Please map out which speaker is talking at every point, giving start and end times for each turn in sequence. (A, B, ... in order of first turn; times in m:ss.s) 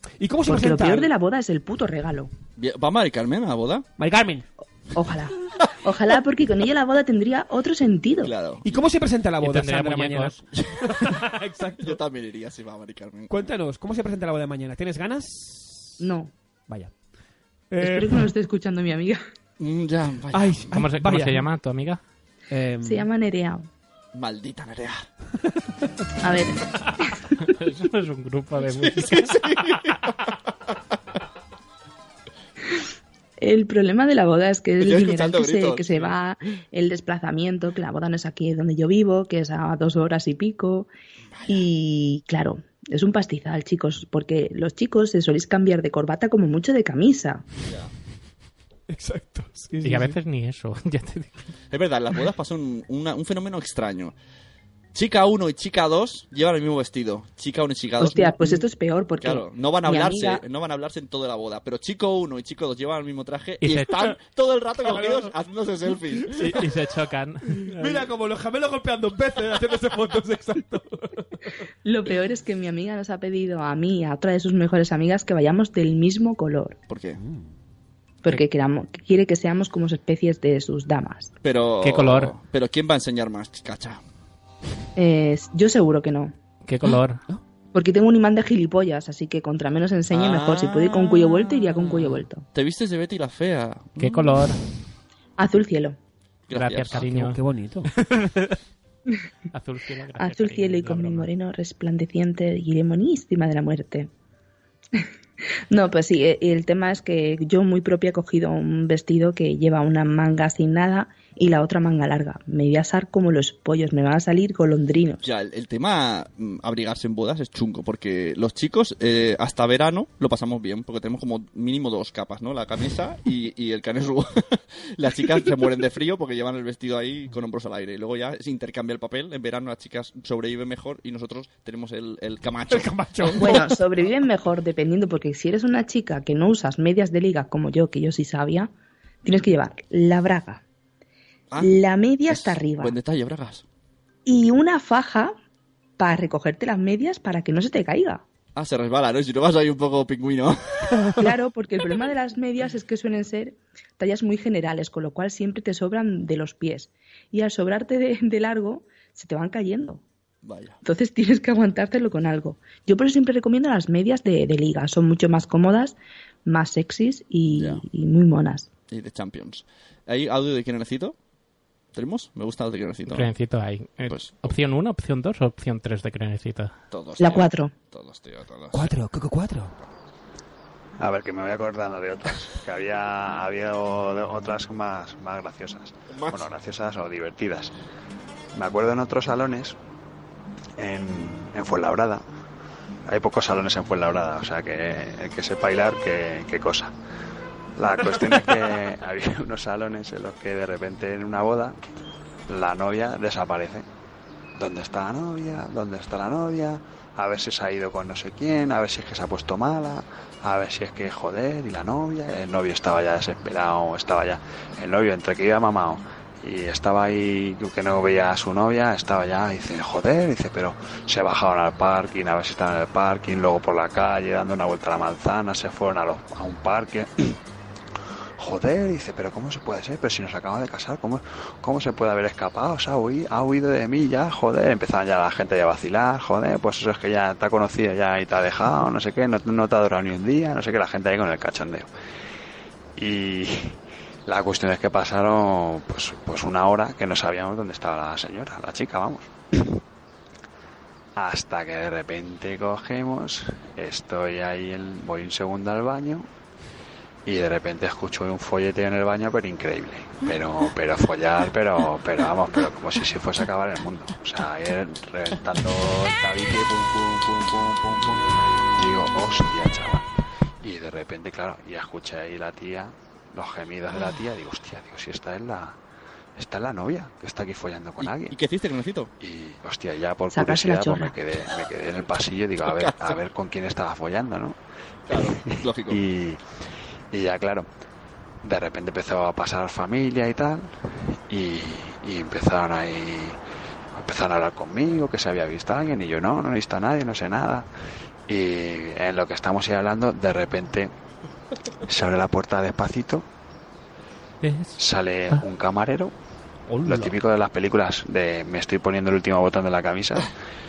0:00.2-0:01.1 A
0:00.5-0:02.3 B
0:02.6-0:03.9 C
0:04.0-0:04.4 A
0:04.9-0:08.3 B
0:08.2-0:08.7 C
0:08.6-0:12.0 A
0:09.4-0:10.4 D
0:10.6-0:11.1 C
0:11.8-0:13.4 C
0:13.3-0:16.0 A
0:16.0-0:16.3 B
0:17.7-0:18.3 A
0:17.8-0:19.2 B
0:19.6-0:20.7 C
0:20.3-0:21.5 A
0:20.7-0:22.0 D
0:22.5-0:23.1 A
0:22.8-0:23.7 B
0:24.1-0:25.1 C
0:26.2-0:26.6 B
0:27.4-0:29.7 D
0:28.7-0:30.2 C
0:33.4-0:40.9 B
0:34.8-0:36.2 C
0:41.5-0:47.4 B
0:48.9-0:50.2 A
0:49.8-0:51.4 D
0:51.7-0:54.1 C
0:54.9-0:58.6 C
0:58.0-1:00.4 B
0:59.2-1:06.6 C
1:03.6-1:04.2 D
1:04.9-1:05.3 A
1:06.3-1:08.1 D
1:07.7-1:11.2 A
1:11.8-1:16.8 B
1:16.9-1:17.2 C
1:17.2-1:17.5 A
1:18.2-1:21.3 B
1:21.4-1:24.0 C
1:21.8-1:22.3 D
1:25.0-1:26.3 B
1:26.6-1:27.2 D
1:27.7-1:32.4 B
1:30.1-1:31.9 C
1:32.5-1:34.5 C
1:34.0-1:34.6 D
1:35.4-1:36.0 B
1:36.5-1:37.0 C
1:36.5-1:37.4 D
1:36.9-1:37.9 A
1:38.0-1:38.5 D
1:39.5-1:41.3 D
1:40.2-1:44.1 B
1:45.7-1:55.2 B
1:55.2-2:13.4 C
2:12.7-2:13.8 A
2:13.4-2:18.7 B
2:19.2-2:20.6 B
2:21.5-2:21.8 C
2:21.6-2:22.9 B
2:22.3-2:23.6 C
2:24.3-2:25.4 B
2:26.0-2:28.2 B
2:28.6-2:31.1 C
2:31.2-2:40.0 B
2:40.4-2:40.8 C
2:40.8-2:48.7 B
2:47.6-2:47.8 C
2:48.9-2:51.2 C
2:51.9-2:53.3 C
2:53.1-2:56.7 D
2:54.1-2:54.5 C
2:56.9-2:58.9 C
2:57.2-2:57.7 B
2:58.7-2:59.7 A
3:01.0-3:07.7 E
3:06.1-3:06.5 C
3:08.5-3:09.8 E
3:10.8-3:12.2 E
3:13.1-3:16.9 E
3:17.8-3:21.8 E
3:22.5-3:23.8 E
3:24.6-3:47.4 E
3:48.4-4:01.9 E
4:03.0-4:09.3 E
4:11.2-4:16.3 E
4:17.3-4:30.1 E
4:30.6-4:35.8 E
4:36.4-4:38.4 E
4:38.0-4:39.1 C
4:39.2-4:44.6 E
4:40.3-4:41.2 B
4:42.6-4:43.2 C
4:45.1-4:46.0 C
4:45.1-4:46.4 E
4:47.1-4:47.7 E
4:48.4-4:50.7 E
4:51.3-4:53.4 E
4:54.0-4:57.7 E
4:58.3-5:00.9 E
5:01.9-5:03.2 E
5:04.4-5:04.8 D
5:04.8-5:06.1 E
5:06.7-5:07.2 A
5:06.8-5:10.3 E